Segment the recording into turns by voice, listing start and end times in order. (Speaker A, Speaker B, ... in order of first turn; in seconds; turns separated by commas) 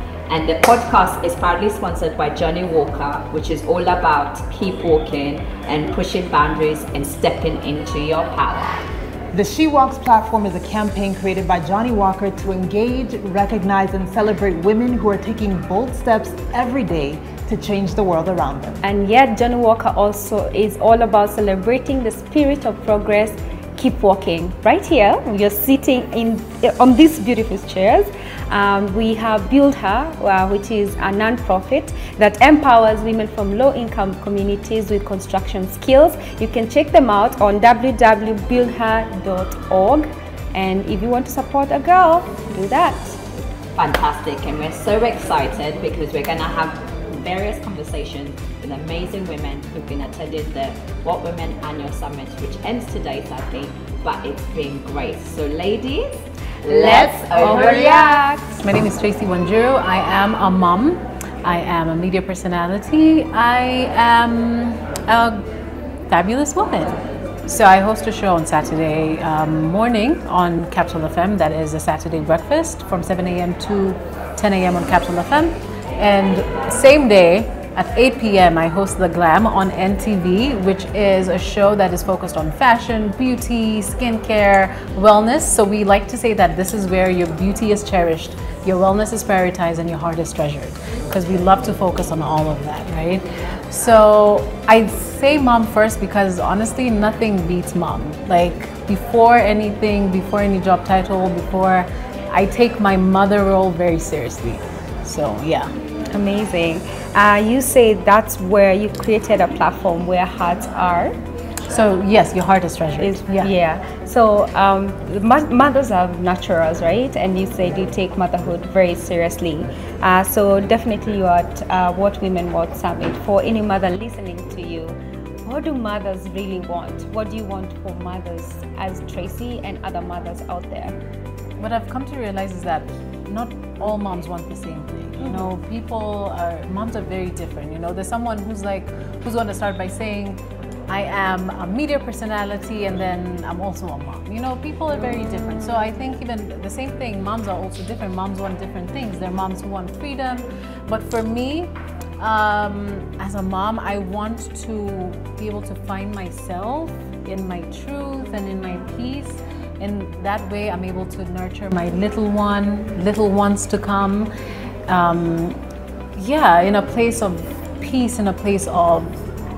Speaker A: 0.3-8.8, Speaker B: 9.3-18.8, Speaker C: 18.8-43.2, Speaker A: 43.8-58.0, Speaker C: 56.7-58.6, Speaker B: 56.9-58.1, Speaker D: 58.6-65.4, Speaker D: 66.1-105.7, Speaker C: 106.1-111.2, Speaker D: 111.7-113.5, Speaker C: 113.0-131.0, Speaker D: 131.6-164.3, Speaker D: 164.9-165.6, Speaker D: 166.2-169.1